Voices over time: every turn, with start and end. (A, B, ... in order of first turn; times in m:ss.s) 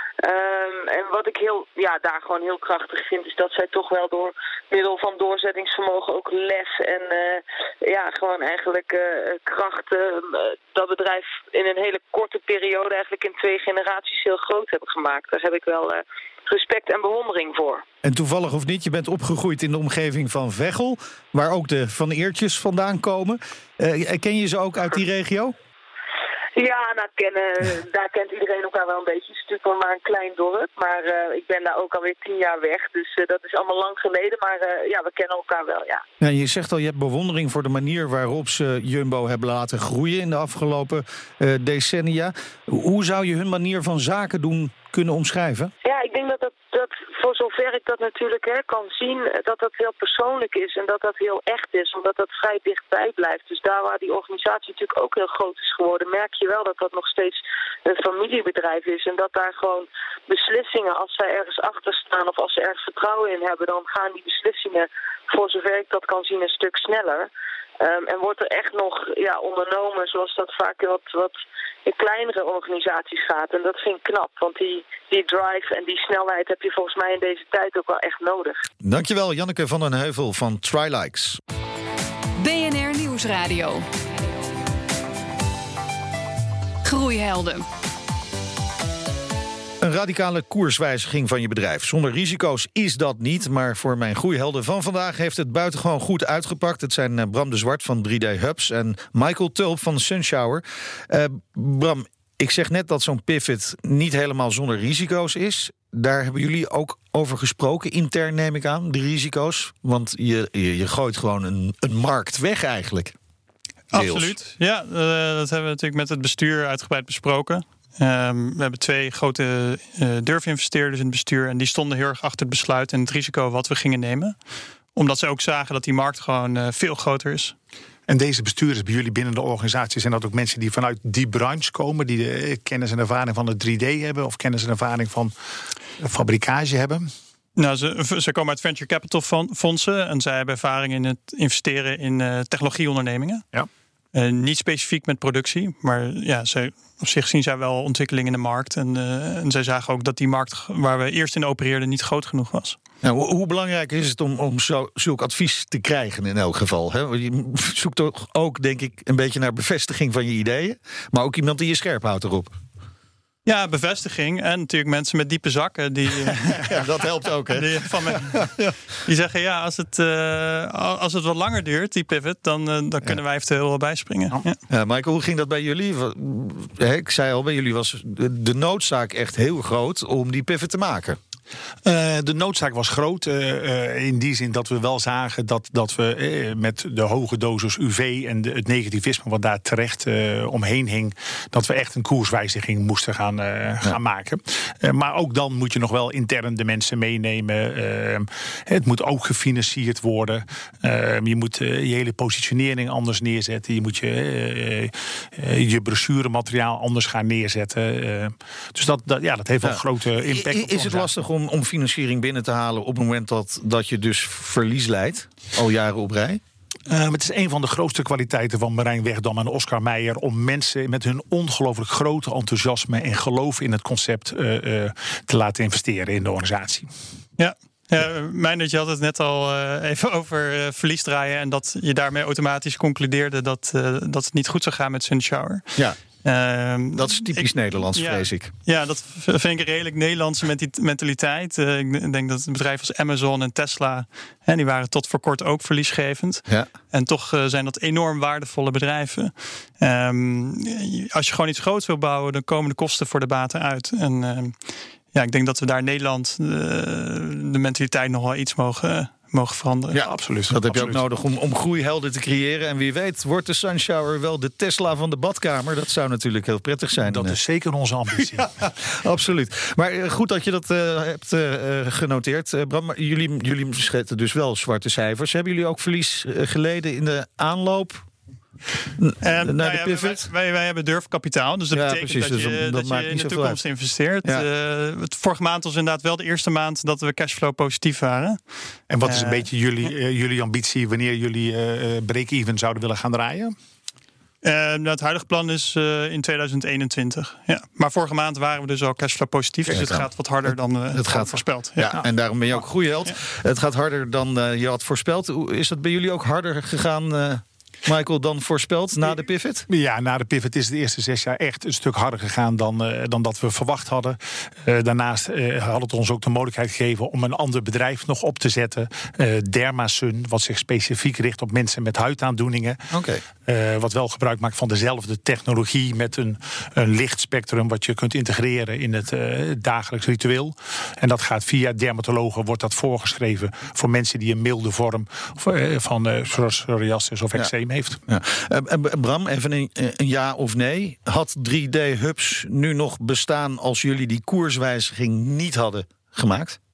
0:00.2-0:17.8 A
0:18.0-0:25.6 B
0:26.6-0:36.0 A
0:36.2-0:45.7 B
0:45.8-1:07.3 A
1:07.8-1:18.6 A
1:18.8-1:21.4 B
1:22.4-1:23.9 C
1:26.8-1:27.6 C
1:29.8-1:53.1 B
1:53.9-2:04.3 D
1:53.9-1:54.3 B
2:04.9-2:07.6 D
2:08.1-2:15.3 E
2:16.0-2:17.1 E
2:17.6-2:23.4 D
2:24.1-2:32.8 D
2:33.0-2:42.5 B
2:43.4-2:46.8 D
2:46.2-2:48.8 B
2:47.5-2:54.6 D
2:54.7-3:01.2 B
3:01.8-3:31.1 E
3:29.6-3:36.4 B
3:36.9-3:46.9 E
3:47.4-4:20.0 D
3:56.9-3:58.5 B
4:19.9-4:27.4 B
4:20.0-4:21.0 E
4:27.1-4:28.5 E
4:28.2-4:38.0 B
4:39.0-4:40.3 B
4:39.2-4:48.4 D
4:41.7-4:43.6 B
4:48.9-4:53.5 E
4:49.0-4:49.5 D
4:54.4-5:02.0 D
4:59.7-5:09.6 B
5:09.7-5:22.8 E
5:22.9-5:23.2 B
5:23.4-5:38.0 E
5:38.1-5:46.6 B